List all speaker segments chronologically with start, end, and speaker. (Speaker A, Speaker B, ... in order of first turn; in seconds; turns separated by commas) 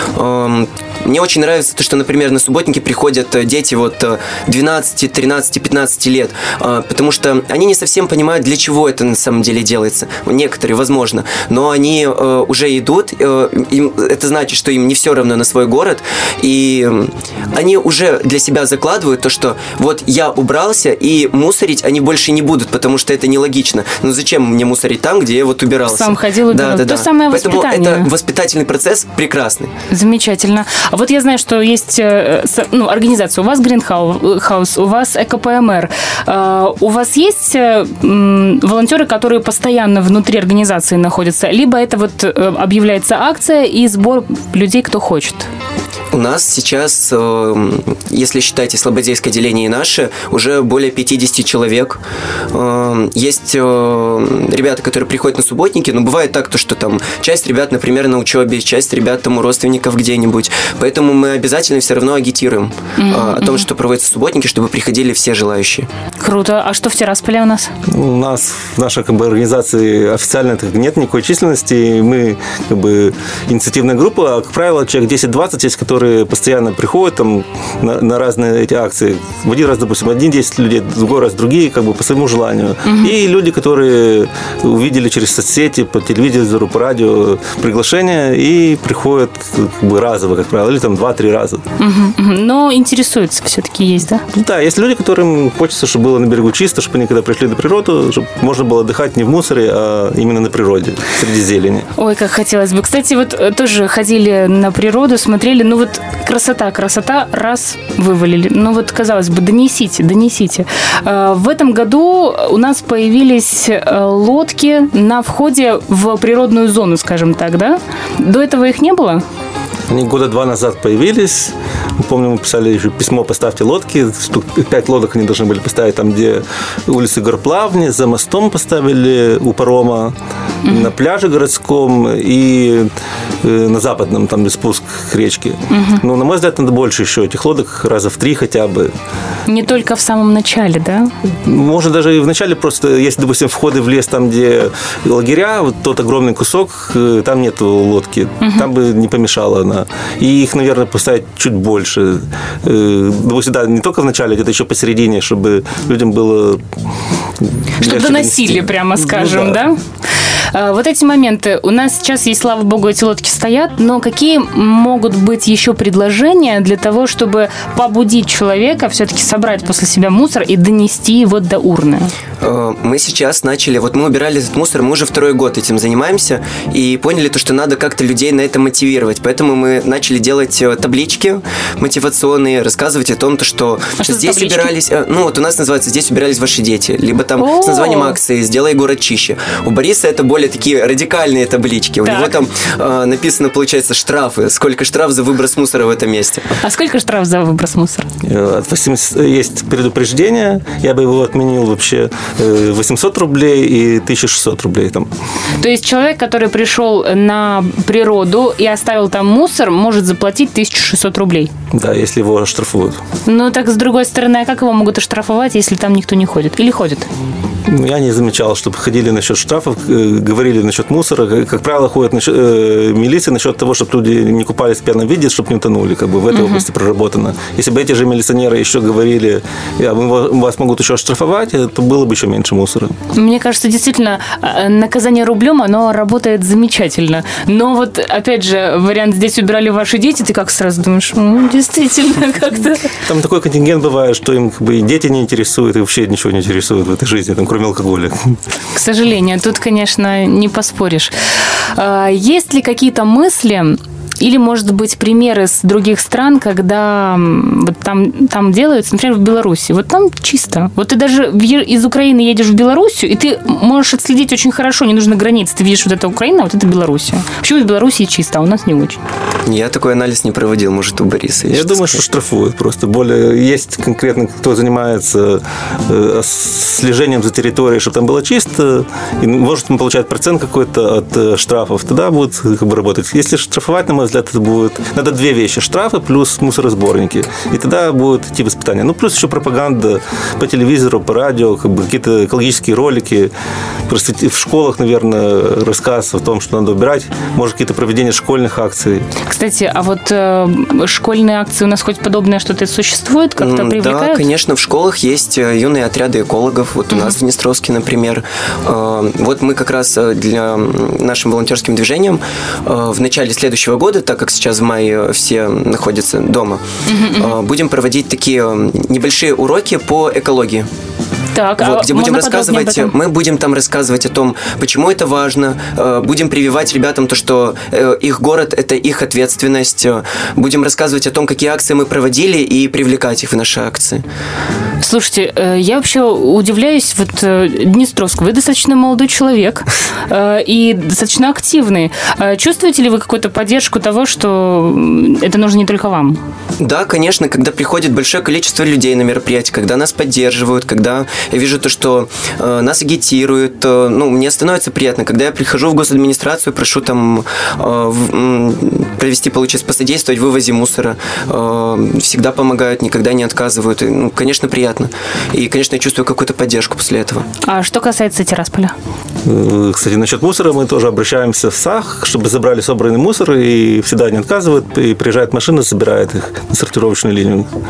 Speaker A: 0.1-29.7, Speaker B: 25.9-28.1, Speaker B: 29.9-45.5, Speaker A: 46.1-52.0, Speaker A: 52.5-65.9, Speaker B: 63.0-63.6, Speaker B: 66.2-67.7, Speaker C: 67.9-91.6, Speaker B: 82.8-83.1, Speaker B: 91.8-94.2, Speaker C: 94.3-101.9, Speaker B: 102.0-119.2, Speaker C: 119.9-130.1, Speaker B: 130.6-130.9, Speaker C: 130.7-132.9, Speaker C: 133.4-138.9, Speaker B: 135.7-136.0, Speaker B: 139.5-141.1, Speaker C: 141.4-156.6, Speaker B: 148.4-148.7, Speaker C: 157.4-159.6, Speaker B: 157.8-159.8, Speaker B: 160.5-172.1, Speaker A: 172.4-196.4, Speaker B: 184.0-184.7, Speaker B: 187.4-188.2, Speaker B: 192.0-192.4, Speaker B: 196.6-198.1, Speaker C: 198.2-205.1, Speaker B: 205.6-211.5, Speaker C: 211.7-213.0, Speaker B: 213.2-217.1, Speaker C: 217.7-232.9, Speaker B: 226.3-226.6, Speaker B: 233.1-242.9, Speaker C: 243.0-248.4, Speaker B: 248.7-251.1, Speaker B: 251.7-269.0, Speaker A: 269.4-272.0, Speaker C: 271.5-293.3, Speaker C: 293.9-299.1, Speaker B: 299.2-304.2, Speaker A: 303.4-316.6, Speaker B: 306.9-307.2, Speaker B: 316.9-317.4, Speaker A: 317.1-320.7, Speaker B: 321.3-322.9, Speaker A: 321.6-334.0, Speaker B: 334.8-346.2, Speaker A: 346.6-367.3, Speaker B: 367.4-368.7, Speaker C: 369.2-377.5